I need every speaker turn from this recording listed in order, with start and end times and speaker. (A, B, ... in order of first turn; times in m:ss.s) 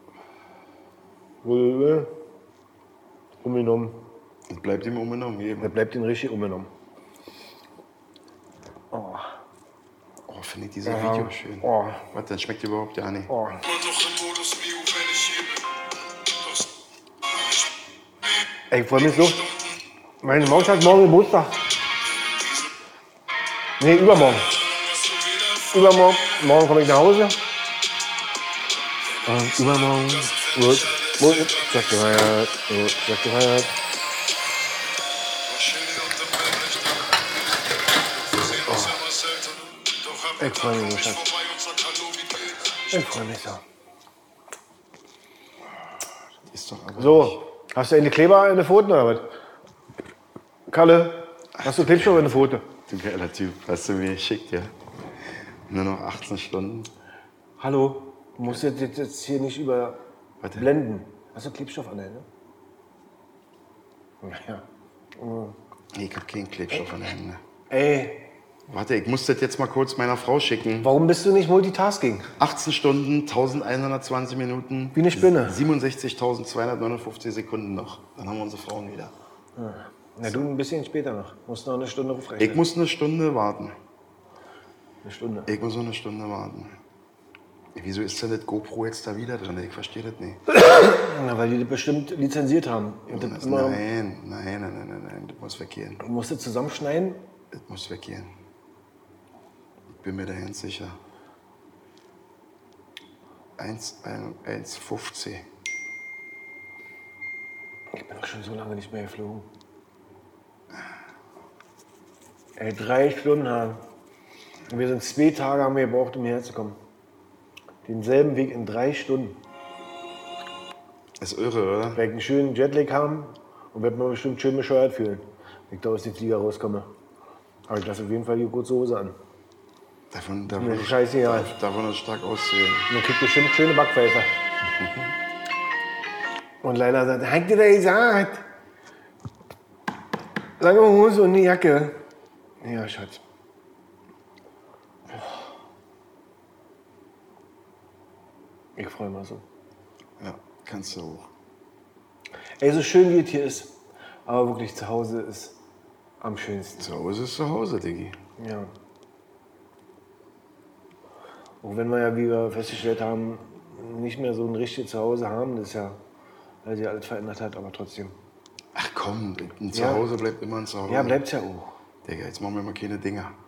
0:01.4-0:02.1 A
0:03.4-0:04.0 A
0:04.5-0:05.8 B
0:05.6-0:06.7 A
0:08.9-0:09.3 A
0:10.2-0:13.3 B
0:10.8-0:12.0 A
0:13.3-0:13.6 A
0:13.6-0:15.7 C
0:18.7-0:19.4 A
0:19.0-0:19.6 C
0:20.2-0:21.6 A
0:22.1-0:22.7 C
0:23.8-0:24.6 A
0:24.3-0:26.4 C
0:25.7-0:27.4 A
0:29.0-0:32.3 C
0:29.2-0:33.7 A
0:35.4-0:43.1 C
0:38.7-0:39.0 A
0:40.4-0:41.2 A
0:42.9-0:43.6 A
0:46.5-0:47.4 B
0:47.0-0:49.3 A
0:50.7-0:52.7 A
0:51.6-0:52.2 B
0:52.9-0:54.7 B
0:55.7-0:56.9 B
0:57.6-1:00.0 A
1:00.4-1:00.7 B
1:00.5-1:02.2 A
1:04.2-1:04.6 A
1:05.2-1:05.6 A
1:05.9-1:07.4 B
1:07.7-1:08.3 A
1:08.7-1:10.9 B
1:10.8-1:12.3 A
1:12.4-1:19.1 B
1:14.9-1:15.6 A
1:19.6-1:22.6 A
1:22.4-1:23.7 B
1:25.0-1:25.5 A
1:25.5-1:26.8 B
1:27.7-1:30.4 B
1:30.5-1:33.8 A
1:33.1-1:36.0 B
1:36.0-1:37.2 A
1:37.5-1:38.3 B
1:40.0-1:41.0 B
1:43.6-1:45.4 B
1:47.9-1:49.5 A
1:52.6-1:53.8 A
1:54.7-1:56.8 A
1:57.8-1:59.4 A
2:01.2-2:02.0 B
2:01.9-2:06.9 A
2:07.7-2:09.2 A
2:10.1-2:12.9 B
2:10.6-2:11.5 A
2:12.9-2:14.3 A
2:16.6-2:18.4 A
2:20.6-2:22.0 A
2:22.6-2:23.2 A
2:28.8-2:29.4 A
2:30.2-2:31.3 B
2:32.6-2:35.6 A
2:36.2-2:36.9 A
2:36.8-2:38.2 B
2:38.4-2:38.7 A
2:41.6-2:46.0 A
2:46.6-2:48.1 A
2:48.7-2:51.2 B
2:49.7-2:50.1 A
2:50.9-2:51.8 A
2:52.0-2:53.4 B